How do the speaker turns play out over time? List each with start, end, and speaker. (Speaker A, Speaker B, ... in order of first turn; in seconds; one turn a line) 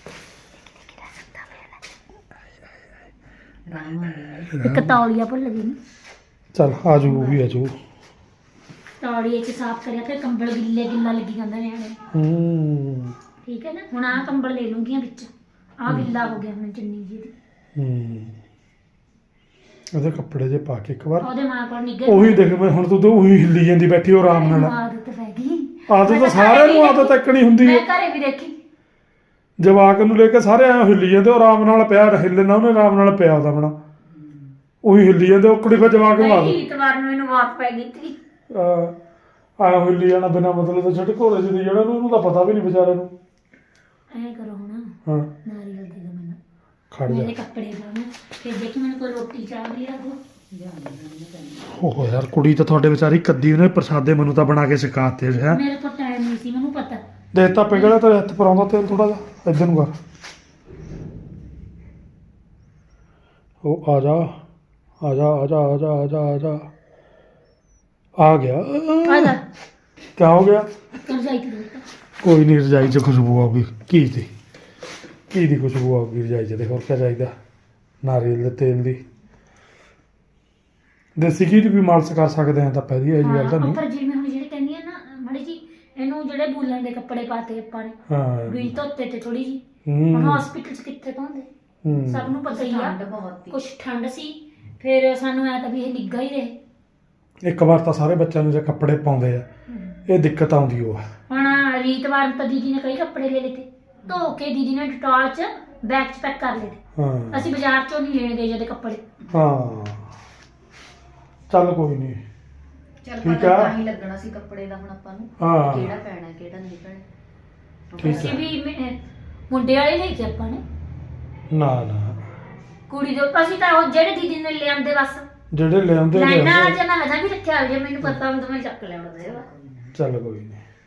Speaker A: 1.0-1.7
Speaker B: 3.7-4.5
Speaker C: 4.5-5.0
Speaker A: 4.6-5.8
Speaker C: 6.5-7.8
Speaker A: 9.0-12.0
Speaker C: 12.1-13.1
Speaker A: 13.4-17.3
Speaker C: 17.8-18.3
Speaker C: 19.9-21.3
Speaker A: 21.2-22.4
Speaker C: 22.1-24.7
Speaker A: 24.2-28.5
Speaker C: 25.9-27.8
Speaker C: 29.6-33.8
Speaker B: 34.1-34.5
Speaker C: 34.8-36.6
Speaker A: 36.1-38.2
Speaker C: 38.5-38.9
Speaker C: 39.6-43.1
Speaker A: 44.1-44.9
Speaker A: 45.4-46.4
Speaker C: 46.9-47.3
Speaker A: 47.0-50.2
Speaker B: 50.5-51.8
Speaker C: 51.7-55.6
Speaker A: 55.5-57.0
Speaker C: 57.3-59.9
Speaker C: 63.6-64.4
Speaker C: 65.0-66.7
Speaker C: 68.2-69.3
Speaker A: 69.0-69.4
Speaker C: 70.2-70.7
Speaker A: 71.0-71.8
Speaker C: 72.2-74.3
Speaker C: 75.3-77.3
Speaker C: 78.0-79.0
Speaker C: 81.2-83.8
Speaker A: 83.2-91.5
Speaker C: 88.1-88.7
Speaker C: 89.8-90.4
Speaker C: 91.8-92.3
Speaker A: 92.1-93.0
Speaker B: 92.5-93.6
Speaker A: 93.5-96.5
Speaker C: 97.4-99.5
Speaker C: 100.1-101.0
Speaker A: 101.3-106.8
Speaker B: 104.0-104.3
Speaker C: 107.0-107.5
Speaker A: 107.3-109.0
Speaker C: 109.3-110.1
Speaker C: 111.5-112.2
Speaker B: 113.0-117.0
Speaker C: 113.2-113.7
Speaker C: 115.4-115.9
Speaker B: 117.9-118.4
Speaker C: 118.0-118.4
Speaker A: 118.0-119.0
Speaker A: 119.5-120.6
Speaker C: 121.5-122.2
Speaker A: 122.9-125.2
Speaker C: 125.5-126.8
Speaker A: 126.1-129.4
Speaker B: 129.2-129.8
Speaker C: 129.9-130.6